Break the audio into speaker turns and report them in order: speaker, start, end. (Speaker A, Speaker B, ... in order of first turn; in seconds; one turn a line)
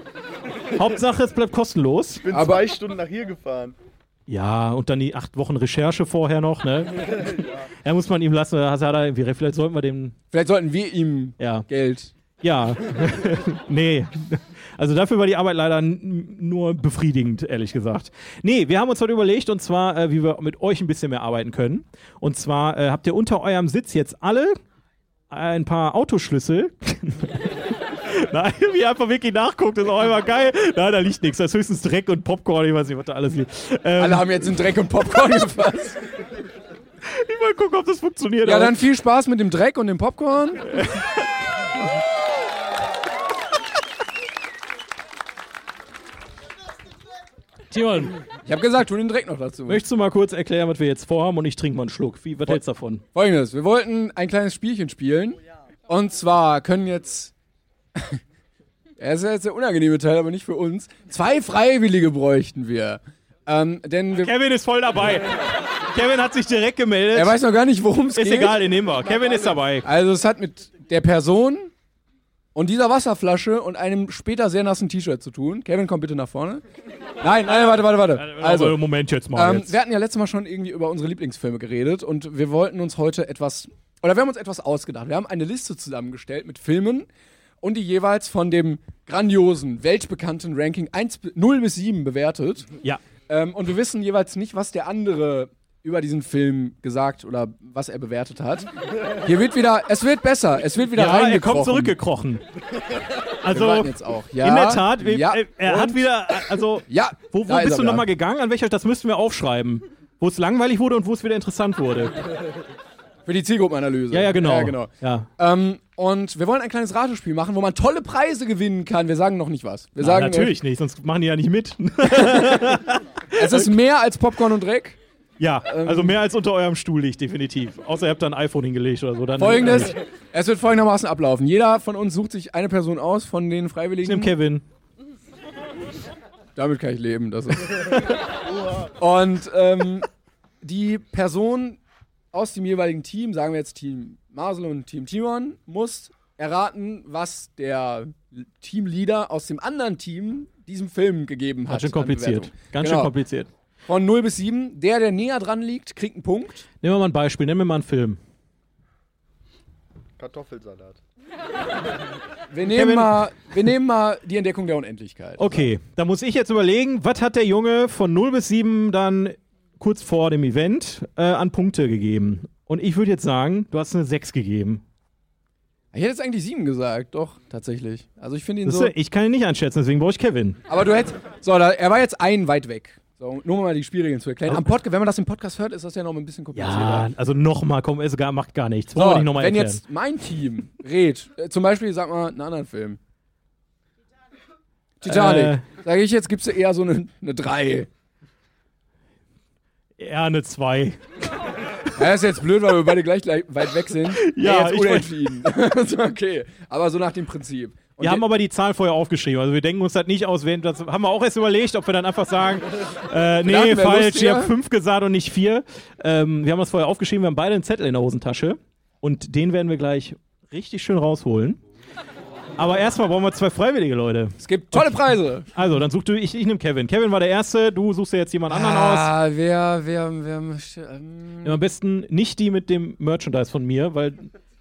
Speaker A: 0.7-2.2
Speaker B: 2.2-3.7
Speaker C: 2.3-2.6
Speaker A: 4.3-10.2
Speaker C: 10.3-12.1
Speaker A: 11.4-11.7
Speaker A: 12.4-24.6
Speaker A: 25.3-34.5
Speaker C: 34.0-36.0
Speaker A: 37.0-38.8
Speaker C: 38.4-40.7
Speaker A: 40.7-41.1
Speaker A: 47.7-48.2
Speaker C: 48.5-49.8
Speaker A: 49.7-53.0
Speaker C: 53.1-57.3
Speaker C: 59.0-64.3
Speaker A: 64.2-67.4
Speaker C: 67.1-68.6
Speaker A: 68.2-69.9
Speaker C: 69.8-71.7
Speaker C: 72.5-76.6
Speaker C: 77.2-78.8
Speaker A: 77.5-79.7
Speaker C: 79.3-87.1
Speaker C: 87.6-92.7
Speaker C: 93.3-98.7
Speaker C: 99.2-101.9
Speaker A: 101.0-102.4
Speaker A: 103.4-112.2
Speaker C: 103.5-108.1
Speaker C: 113.3-120.5
Speaker A: 114.1-115.3
Speaker A: 120.0-123.7
Speaker C: 122.0-122.7
Speaker C: 123.3-125.0
Speaker A: 125.4-129.9
Speaker C: 125.6-126.2
Speaker C: 129.4-134.3
Speaker A: 134.0-134.6
Speaker C: 136.6-138.1
Speaker C: 139.0-140.1
Speaker C: 140.6-141.8
Speaker C: 142.3-153.1
Speaker A: 151.7-153.5
Speaker C: 153.9-156.7
Speaker A: 156.8-158.2
Speaker B: 160.2-161.0
Speaker C: 162.5-165.7
Speaker A: 162.7-163.2
Speaker A: 165.4-174.8
Speaker C: 175.9-178.9
Speaker A: 178.6-180.6
Speaker C: 180.7-187.1
Speaker A: 186.6-189.8
Speaker C: 188.9-193.0
Speaker C: 195.0-197.9
Speaker A: 195.1-195.6
Speaker A: 200.0-201.0
Speaker C: 201.9-208.2
Speaker A: 204.2-205.3
Speaker A: 208.0-221.6
Speaker C: 213.5-214.5
Speaker A: 222.6-229.1
Speaker C: 224.4-225.5
Speaker C: 228.5-231.6
Speaker A: 231.4-234.3